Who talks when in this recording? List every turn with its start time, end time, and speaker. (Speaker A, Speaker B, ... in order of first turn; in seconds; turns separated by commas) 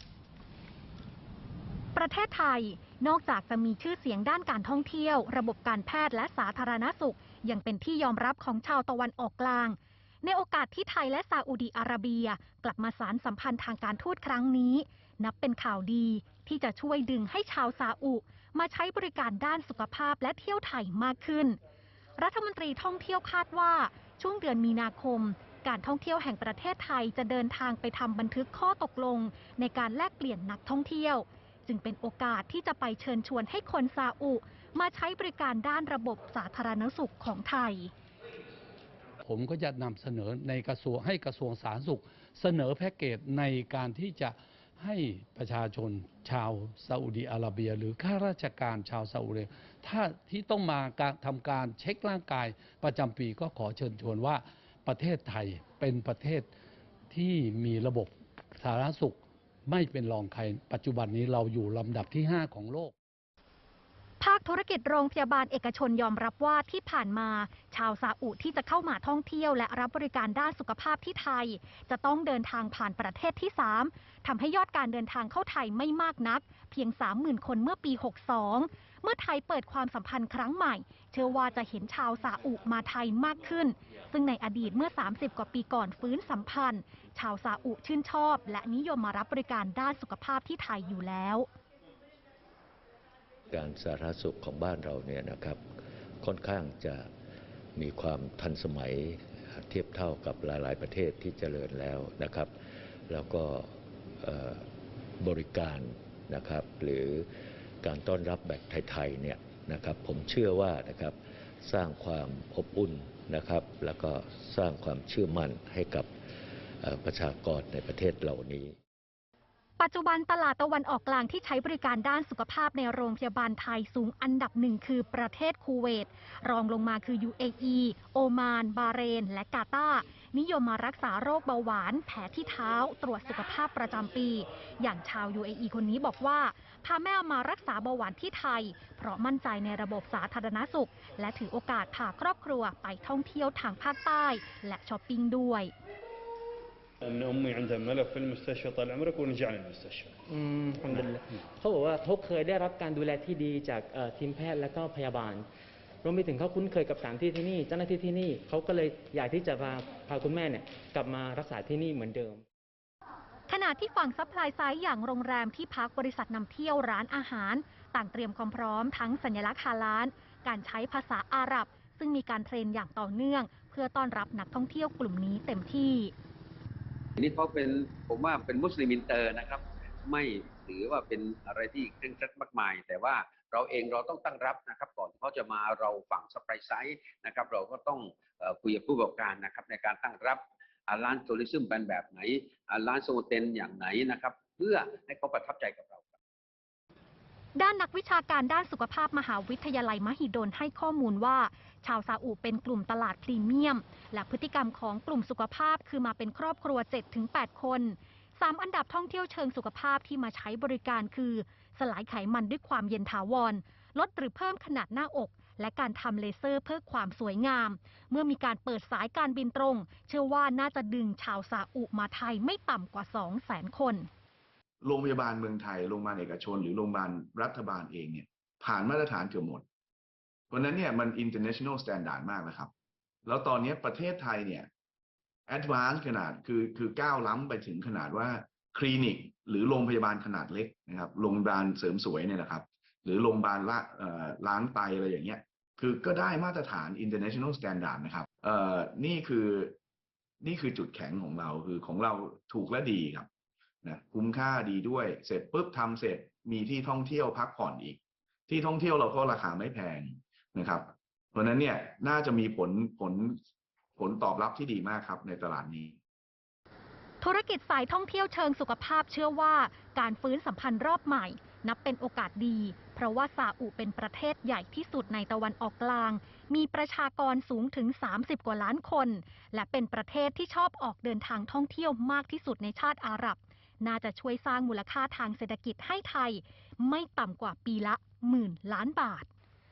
Speaker A: 1.9-21.6, Speaker A: 22.2-37.9, Speaker B: 39.2-56.5, Speaker B: 57.1-62.9, Speaker A: 64.2-91.5, Speaker C: 93.5-95.6, Speaker C: 96.2-97.1, Speaker C: 97.8-102.5, Speaker C: 103.1-104.7, Speaker C: 105.2-107.3, Speaker C: 107.8-116.1, Speaker C: 116.8-118.8, Speaker A: 119.8-145.7, Speaker D: 147.0-150.2, Speaker E: 150.3-155.5, Speaker D: 150.8-151.1, Speaker E: 156.0-162.4, Speaker A: 163.5-176.1, Speaker F: 177.2-196.1, Speaker A: 197.6-224.1, Speaker G: 224.8-229.6, Speaker G: 230.5-232.7, Speaker G: 233.2-234.7, Speaker G: 235.5-249.8, Speaker G: 250.4-253.3, Speaker G: 253.8-263.4, Speaker G: 264.0-266.0, Speaker A: 267.2-289.3